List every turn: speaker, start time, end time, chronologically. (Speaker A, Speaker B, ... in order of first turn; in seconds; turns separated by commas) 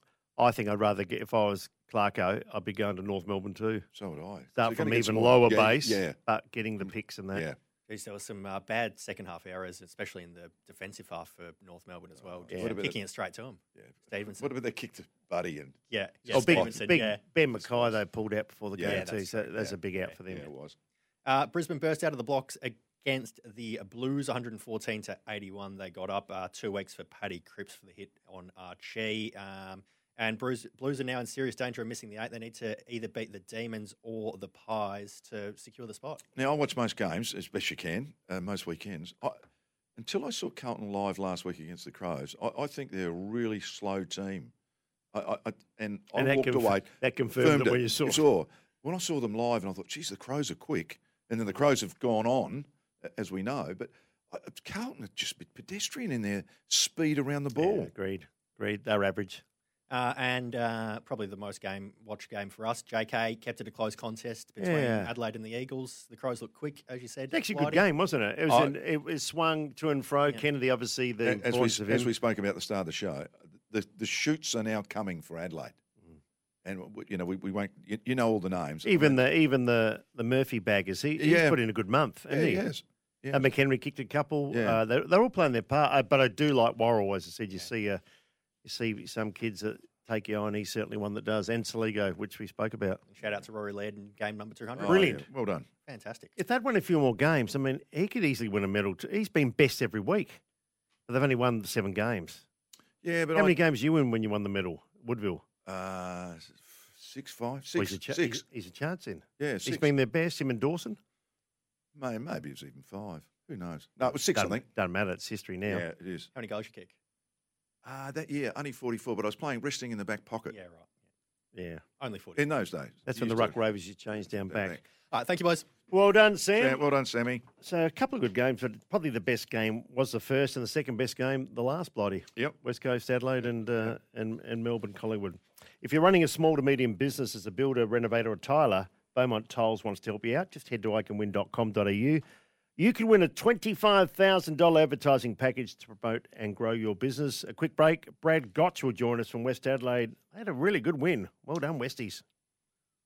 Speaker A: 0.4-3.9, Speaker B: 3.9-6.2, Speaker A: 4.6-7.5, Speaker B: 6.8-7.6, Speaker C: 7.9-14.5, Speaker A: 12.5-12.8, Speaker B: 12.5-13.0, Speaker B: 13.8-17.0, Speaker C: 15.9-18.0, Speaker A: 16.3-20.5, Speaker B: 18.8-19.1, Speaker C: 18.8-20.1, Speaker B: 20.3-20.8, Speaker C: 21.2-36.2, Speaker B: 36.4-39.4, Speaker B: 40.0-44.5, Speaker B: 45.1-57.9, Speaker A: 46.1-48.2, Speaker A: 57.6-59.4, Speaker C: 59.9-67.9, Speaker A: 64.6-65.1, Speaker A: 67.3-72.1, Speaker B: 68.5-68.8, Speaker B: 71.2-75.8, Speaker B: 76.6-79.2, Speaker A: 78.8-82.7, Speaker B: 81.2-81.6, Speaker B: 82.3-83.5, Speaker A: 83.3-88.0, Speaker B: 84.5-84.8, Speaker A: 88.6-93.0, Speaker C: 93.1-95.2, Speaker B: 94.8-95.7, Speaker A: 94.8-95.3, Speaker C: 95.9-96.3, Speaker A: 96.4-100.4, Speaker A: 101.1-102.4, Speaker B: 103.0-103.6, Speaker A: 103.3-105.4, Speaker B: 105.7-108.4, Speaker A: 107.8-111.0, Speaker B: 109.4-109.9, Speaker B: 112.0-114.7, Speaker A: 114.3-115.9, Speaker B: 115.7-116.3, Speaker C: 116.3-116.9, Speaker B: 117.8-120.6, Speaker C: 120.5-120.9, Speaker A: 121.5-121.8, Speaker C: 122.0-122.5, Speaker B: 122.4-123.6, Speaker A: 123.1-124.8, Speaker B: 124.3-124.8, Speaker C: 125.1-125.7, Speaker A: 125.9-126.8, Speaker B: 126.6-127.4, Speaker A: 127.6-142.2, Speaker A: 142.8-152.2